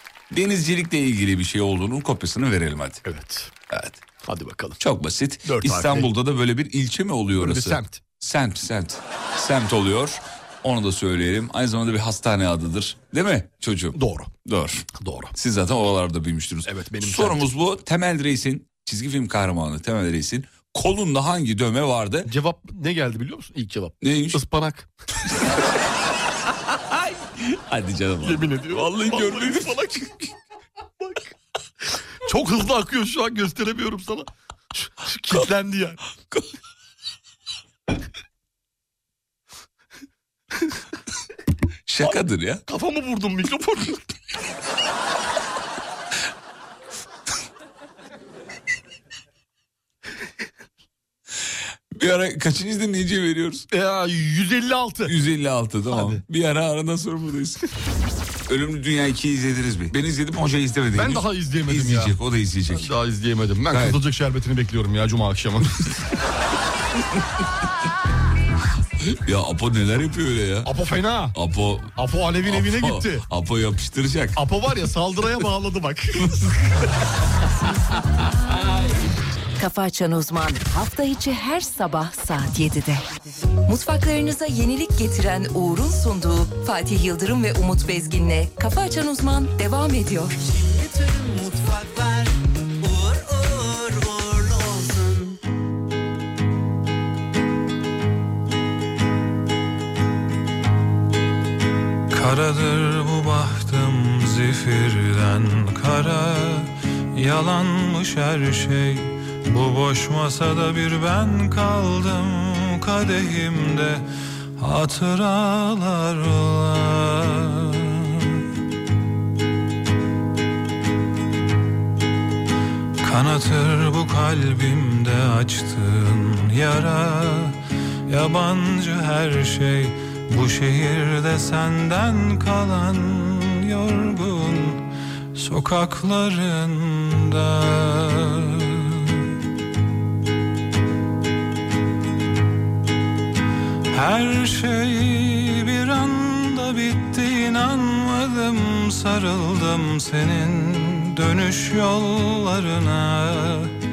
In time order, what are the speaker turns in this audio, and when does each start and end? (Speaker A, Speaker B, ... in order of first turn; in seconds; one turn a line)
Speaker A: 0.3-3.0
Speaker B: 3.0-3.5
Speaker A: 3.7-4.0
Speaker B: 4.2-4.8
Speaker A: 4.8-22.3
Speaker B: 5.5-6.1
Speaker B: 7.4-8.0
Speaker B: 13.9-14.3
Speaker B: 15.0-15.3
Speaker B: 16.7-17.4
Speaker B: 22.3-24.9
Speaker A: 24.0-24.4
Speaker A: 26.7-30.3
Speaker B: 28.2-29.8
Speaker B: 32.2-36.0
Speaker A: 41.9-42.6
Speaker B: 42.0-44.0
Speaker A: 52.0-53.7
Speaker B: 53.7-55.1
Speaker A: 55.1-57.6
Speaker B: 55.9-56.2
Speaker A: 58.5-62.9
Speaker B: 61.0-62.1
Speaker B: 62.7-65.9
Speaker A: 63.7-64.0
Speaker A: 69.0-70.7
Speaker B: 70.7-71.3
Speaker A: 71.3-72.0
Speaker B: 72.0-73.2
Speaker A: 72.5-74.4
Speaker B: 74.4-76.6
Speaker C: 79.6-83.0
Speaker C: 83.7-90.4
Speaker D: 90.7-92.3
Speaker D: 92.8-95.3
Speaker E: 102.1-114.1
Speaker E: 114.6-118.4
Speaker E: 123.0-139.2
Speaker E: 143.9-153.7